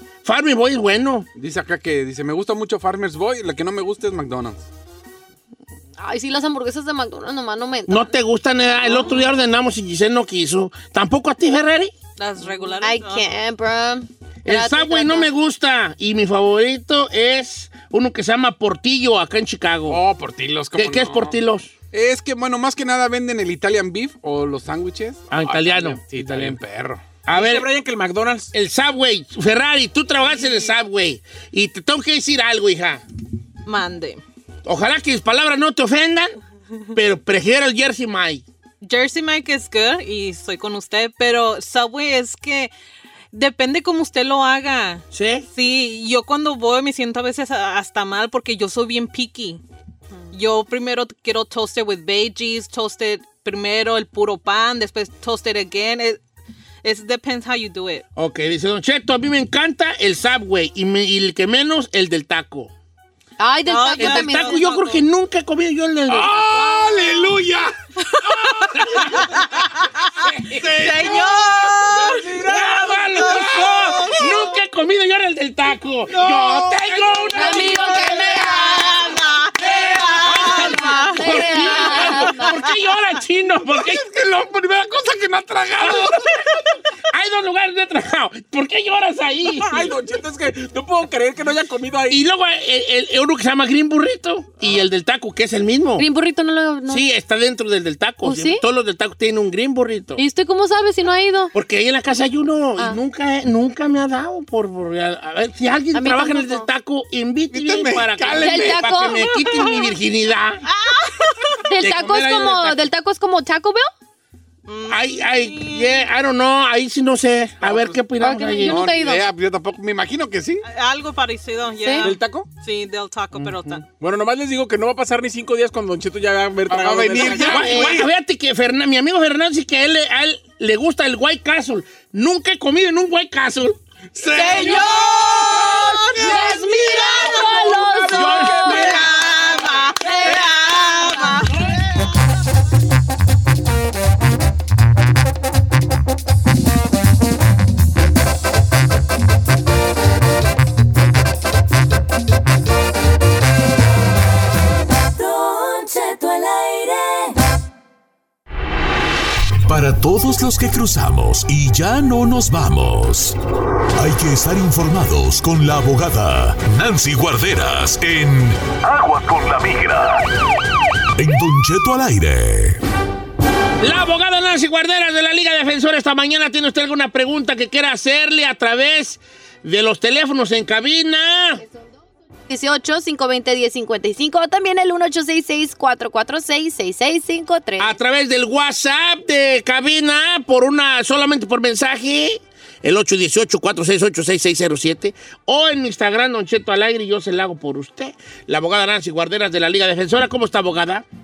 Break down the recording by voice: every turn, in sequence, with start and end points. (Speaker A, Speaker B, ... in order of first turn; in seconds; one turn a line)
Speaker A: 0.2-1.3
Speaker B: 1.4-4.7
Speaker C: 6.0-8.1
Speaker A: 7.9-11.9
Speaker C: 8.9-9.2
Speaker D: 12.2-13.3
Speaker C: 12.8-15.3
Speaker A: 14.4-20.0
Speaker B: 19.9-21.4
Speaker A: 20.8-21.7
Speaker B: 21.9-27.0
Speaker A: 25.3-26.6
Speaker A: 27.2-27.7
Speaker E: 27.3-28.5
Speaker A: 28.5-33.0
Speaker D: 33.7-34.2
Speaker A: 34.6-36.4
Speaker A: 37.0-38.4
Speaker D: 38.8-42.7
Speaker D: 43.3-49.6
Speaker A: 45.1-45.5
Speaker D: 50.3-56.2
Speaker D: 56.8-58.0
Speaker A: 58.2-62.7
Speaker C: 63.4-64.6
Speaker D: 63.7-65.0
Speaker A: 64.0-66.9
Speaker B: 66.1-69.2
Speaker B: 70.5-72.2
Speaker D: 70.8-72.0
Speaker E: 72.0-73.0
Speaker A: 72.3-78.9
Speaker B: 73.3-73.7
Speaker B: 76.1-78.7
Speaker C: 77.3-79.2
Speaker D: 79.2-81.1
Speaker B: 79.6-80.5
Speaker A: 79.6-84.1
Speaker C: 81.1-82.5
Speaker B: 83.8-86.5
Speaker A: 85.8-86.1
Speaker A: 87.1-89.9
Speaker E: 89.5-92.2
Speaker A: 92.1-96.0
Speaker C: 96.0-97.0
Speaker A: 96.9-100.2
Speaker C: 98.2-98.6
Speaker C: 100.2-101.5
Speaker A: 101.5-110.6
Speaker C: 105.9-106.7
Speaker B: 107.5-109.1
Speaker C: 108.4-109.8
Speaker D: 110.7-111.5
Speaker C: 111.7-113.9
Speaker A: 111.8-112.8
Speaker D: 114.7-116.1
Speaker A: 114.9-118.9
Speaker B: 117.6-118.0
Speaker C: 118.2-119.2
Speaker B: 118.6-120.6
Speaker D: 120.6-123.8
Speaker E: 122.0-122.5
Speaker A: 123.3-123.8
Speaker E: 124.0-128.0
Speaker B: 126.7-128.1
Speaker A: 127.3-133.8
Speaker B: 134.2-137.4
Speaker C: 134.3-139.0
Speaker D: 134.4-135.1
Speaker D: 135.9-136.3
Speaker D: 137.2-141.7
Speaker A: 138.1-138.9
Speaker B: 138.2-139.5
Speaker C: 140.0-140.5
Speaker F: 155.1-157.4
Speaker G: 159.7-163.4
Speaker G: 164.0-170.2
Speaker G: 171.2-172.8
Speaker A: 173.8-181.6
Speaker C: 182.5-187.9
Speaker A: 187.8-201.1